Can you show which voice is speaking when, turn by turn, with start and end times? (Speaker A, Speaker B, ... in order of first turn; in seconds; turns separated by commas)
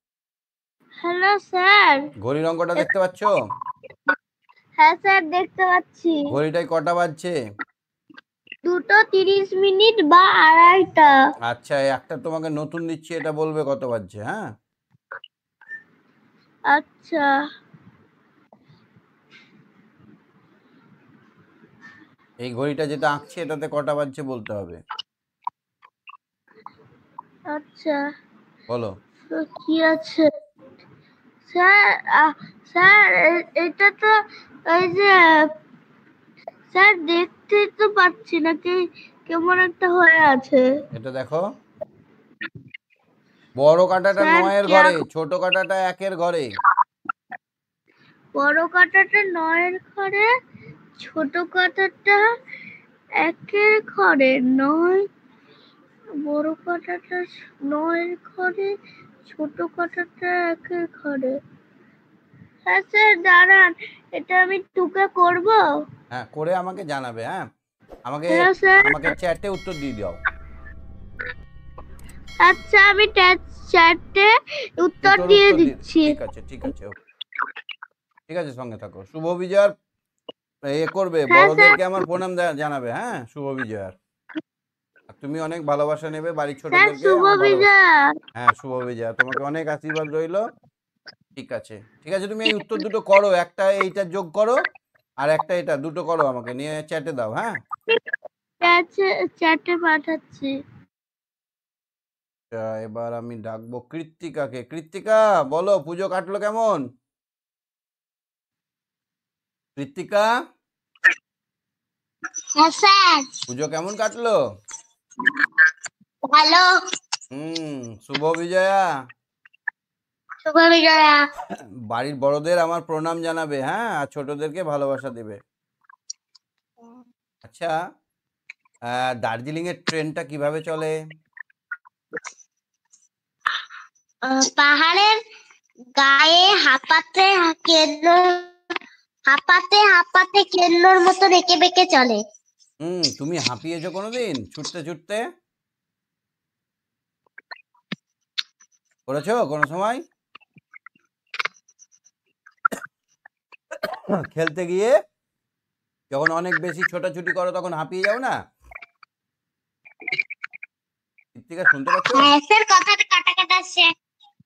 Speaker A: 1.0-2.0, Speaker B: 2.2-3.4, Speaker A: 4.8-6.2, Speaker B: 6.3-7.3, Speaker A: 8.6-11.1, Speaker B: 11.5-14.4, Speaker A: 16.7-17.3, Speaker B: 22.4-24.8, Speaker A: 27.5-28.0, Speaker B: 28.7-28.9, Speaker A: 29.3-30.2, Speaker A: 31.5-34.1, Speaker A: 34.7-35.5, Speaker A: 36.7-40.6, Speaker B: 40.9-41.4, Speaker B: 43.6-46.5, Speaker A: 44.1-45.0, Speaker A: 48.4-50.3, Speaker A: 51.0-52.2, Speaker A: 53.2-55.1, Speaker A: 56.2-58.7, Speaker A: 59.3-61.4, Speaker A: 62.6-65.6, Speaker B: 66.1-67.5, Speaker B: 68.0-70.2, Speaker A: 68.3-69.1, Speaker A: 72.4-76.1, Speaker B: 75.0-76.9, Speaker B: 78.3-79.7, Speaker B: 80.7-83.9, Speaker A: 81.3-81.8, Speaker B: 85.1-87.7, Speaker A: 86.7-87.8, Speaker B: 88.3-90.4, Speaker B: 91.3-94.6, Speaker B: 95.2-97.6, Speaker A: 98.6-100.5, Speaker B: 102.5-106.8, Speaker B: 109.8-110.3, Speaker C: 112.6-113.3, Speaker B: 113.5-114.3, Speaker C: 116.3-116.7, Speaker B: 117.3-118.8, Speaker C: 120.4-121.2, Speaker B: 121.9-125.4, Speaker B: 127.4-127.7, Speaker B: 128.9-130.9, Speaker C: 134.2-135.2, Speaker C: 136.0-138.5, Speaker C: 139.3-142.2, Speaker B: 142.8-145.2, Speaker B: 149.1-150.0, Speaker B: 153.8-154.9, Speaker B: 156.1-158.3, Speaker B: 161.3-162.3, Speaker C: 162.1-163.9